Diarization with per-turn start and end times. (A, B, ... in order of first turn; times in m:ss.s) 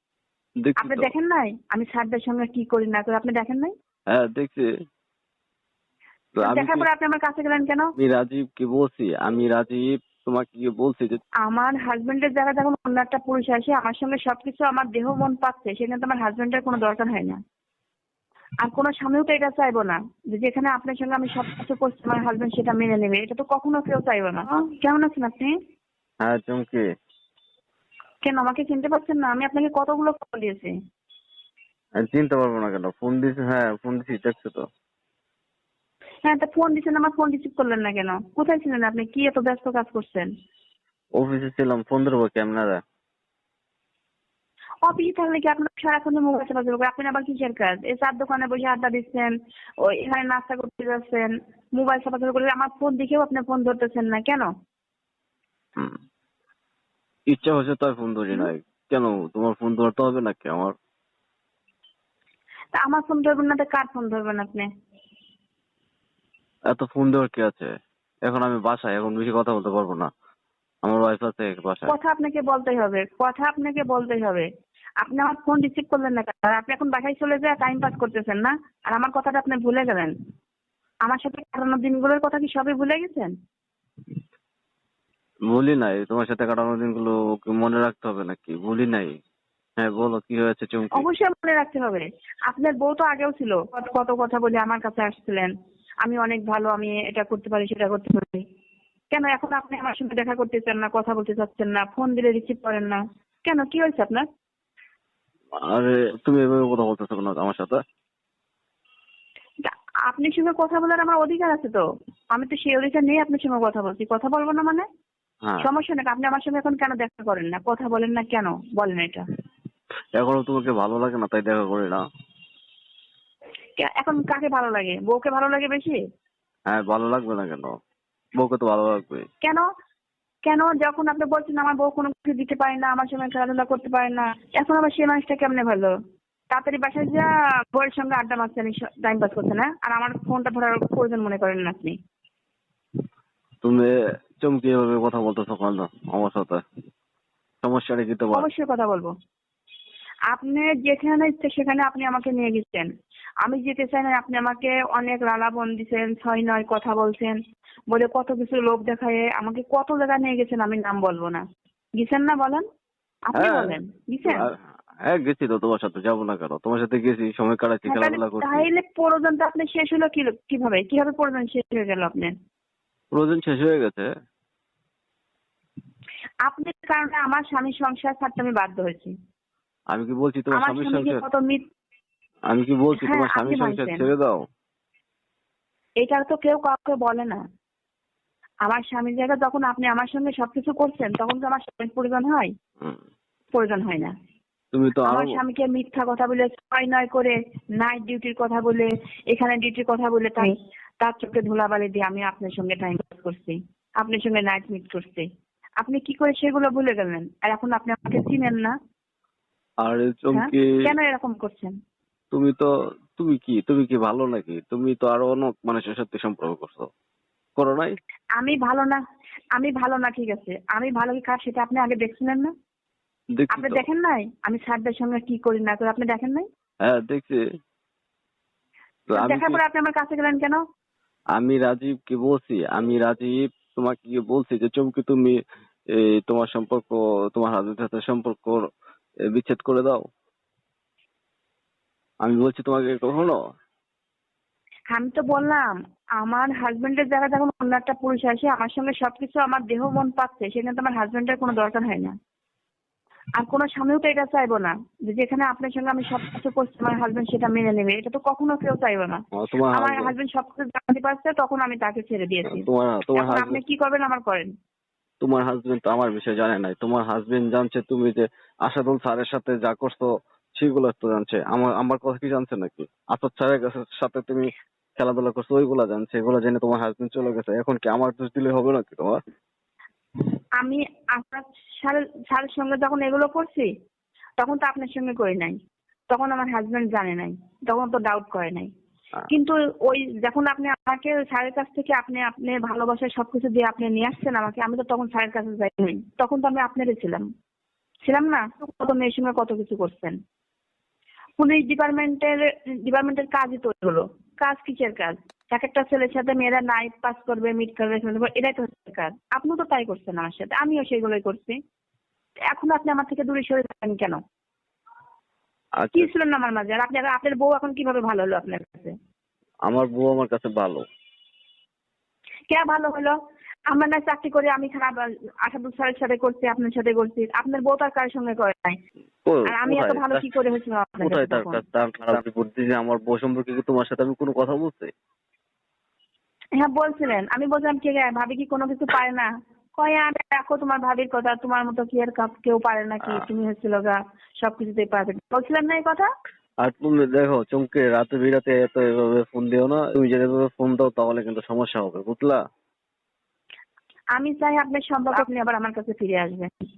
0:00.6-0:01.1 A
0:00.8-0:03.7 B
0:04.1-0:04.7 A
0:06.4-0:06.8 A
0:06.4-0:07.9 B
0:08.0-0:11.2 A
0:11.4-0:17.4 B
0:18.6-0:25.5 B
0:26.2-0:26.8 A
0:28.2-0:30.7 B
0:32.0-0:34.6 A
0:36.2-0:40.3 B
0:41.2-0:42.8 A
0:44.8-0:49.3 B
0:49.8-0:54.5 B
0:57.3-1:00.7 A
1:02.7-1:04.7 B
1:06.7-1:07.7 A
1:08.2-1:10.1 A
1:10.8-1:11.9 A
1:11.9-1:14.5 B
1:15.0-1:20.1 B
1:21.0-1:23.3 B
1:25.5-1:29.2 A
1:29.8-1:31.0 A
1:30.9-1:35.5 B
1:36.0-1:38.4 B
1:39.1-1:44.2 B
1:45.7-1:47.8 A
1:49.6-1:51.8 B
1:52.3-1:54.8 B
1:55.6-1:59.2 B
2:00.2-2:02.0 A
2:03.8-2:06.0 B
2:06.7-2:07.7 A
2:08.4-2:09.2 A
2:10.5-2:15.9 B
2:16.5-2:22.0 B
2:23.6-2:26.6 A
2:27.6-2:28.5 A
2:28.3-2:29.1 B
2:30.3-2:32.9 B
2:33.4-2:37.4 B
2:37.9-2:41.4 B
2:42.0-2:42.6 B
2:43.3-2:44.5 B
2:43.3-2:48.7 A
2:47.9-2:52.3 B
2:53.1-2:54.1 A
2:56.5-2:59.1 B
2:59.9-3:01.2 A
3:00.6-3:01.6 B
3:02.5-3:04.4 A
3:03.0-3:04.0 B
3:06.0-3:07.4 B
3:08.7-3:12.5 B
3:13.5-3:14.1 B
3:14.7-3:15.4 A
3:15.0-3:25.2 B
3:25.8-3:28.8 B
3:29.8-3:30.7 A
3:30.3-3:31.7 B
3:32.3-3:36.9 A
3:37.6-3:37.9 A
3:38.4-3:39.0 B
3:39.6-3:42.5 B
3:43.4-3:43.9 A
3:43.5-3:46.5 B
3:46.8-3:47.4 A
3:49.1-3:49.6 A
3:49.2-3:50.6 B
3:51.4-3:55.4 A
3:55.9-3:58.6 A
3:59.3-4:00.0 A
4:02.2-4:03.4 A
4:04.9-4:12.1 B
4:13.4-4:19.2 B
4:19.4-4:20.1 A
4:19.7-4:24.5 B
4:22.5-4:23.6 A
4:25.2-4:30.1 A
4:30.6-4:39.2 A
4:40.6-4:43.7 B
4:44.4-4:45.6 B
4:46.1-4:48.7 B
4:49.3-4:57.2 B
4:58.1-5:00.1 B
5:01.4-5:11.6 B
5:12.5-5:14.2 B
5:15.8-5:16.1 A
5:15.9-5:18.9 B
5:19.7-5:20.8 A
5:22.5-5:23.2 B
5:23.7-5:28.8 B
5:29.2-5:30.2 A
5:29.5-5:31.6 B
5:31.0-5:34.9 A
5:36.6-5:46.1 B
5:46.6-5:52.4 A
5:54.2-5:56.5 B